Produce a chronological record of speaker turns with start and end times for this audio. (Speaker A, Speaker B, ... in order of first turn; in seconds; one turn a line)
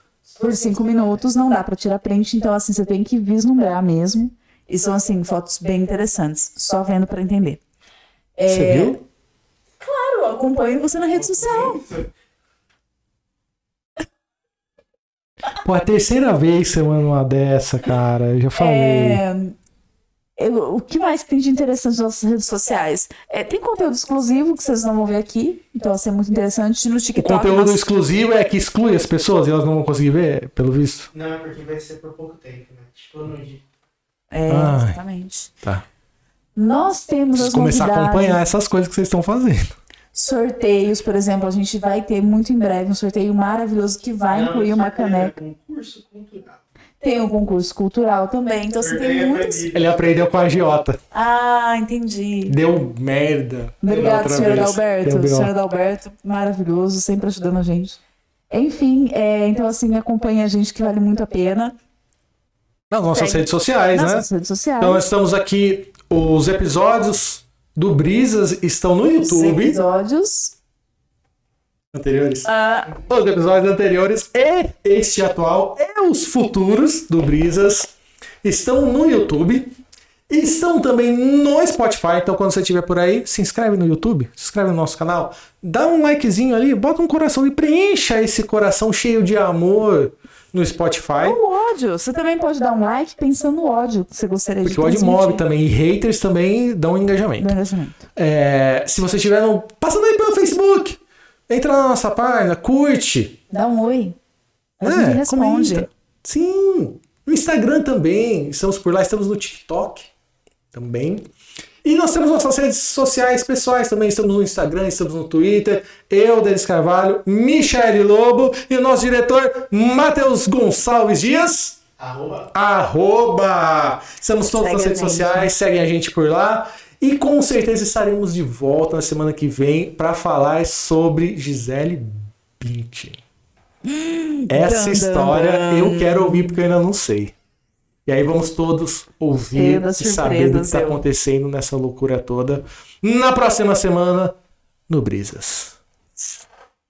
Speaker A: 0.4-0.9
Speaker B: 0.4-7.6
Speaker B: 8.4-9.0
Speaker C: 8.5-9.0
Speaker B: 9.8-11.9
Speaker C: 15.6-19.2
Speaker B: 18.5-19.5
Speaker B: 20.4-27.8
Speaker C: 27.1-31.1
Speaker A: 31.1-33.6
Speaker B: 34.3-35.5
Speaker C: 34.5-35.0
Speaker B: 36.5-38.4
Speaker C: 37.3-39.7
Speaker B: 40.1-45.3
Speaker A: 44.3-46.6
Speaker B: 47.0-49.7
Speaker A: 48.8-50.5
Speaker C: 49.7-51.0
Speaker B: 51.1-52.5
Speaker C: 52.5-55.5
Speaker B: 53.8-58.0
Speaker B: 58.5-61.8
Speaker C: 62.9-64.3
Speaker B: 63.1-65.0
Speaker C: 64.8-69.8
Speaker B: 69.2-70.5
Speaker C: 71.9-79.7
Speaker B: 72.4-72.9
Speaker C: 80.3-91.4
Speaker B: 91.2-95.4
Speaker C: 94.6-97.5
Speaker B: 97.4-98.0
Speaker C: 98.2-103.4
Speaker B: 103.5-104.2
Speaker C: 104.8-110.1
Speaker B: 104.8-105.9
Speaker C: 110.7-111.3
Speaker C: 111.8-121.8
Speaker A: 122.0-122.5
Speaker C: 122.5-133.2
Speaker B: 124.5-125.5
Speaker B: 133.8-136.5
Speaker C: 134.5-137.3
Speaker C: 138.1-144.3
Speaker B: 139.5-141.0
Speaker C: 144.9-146.3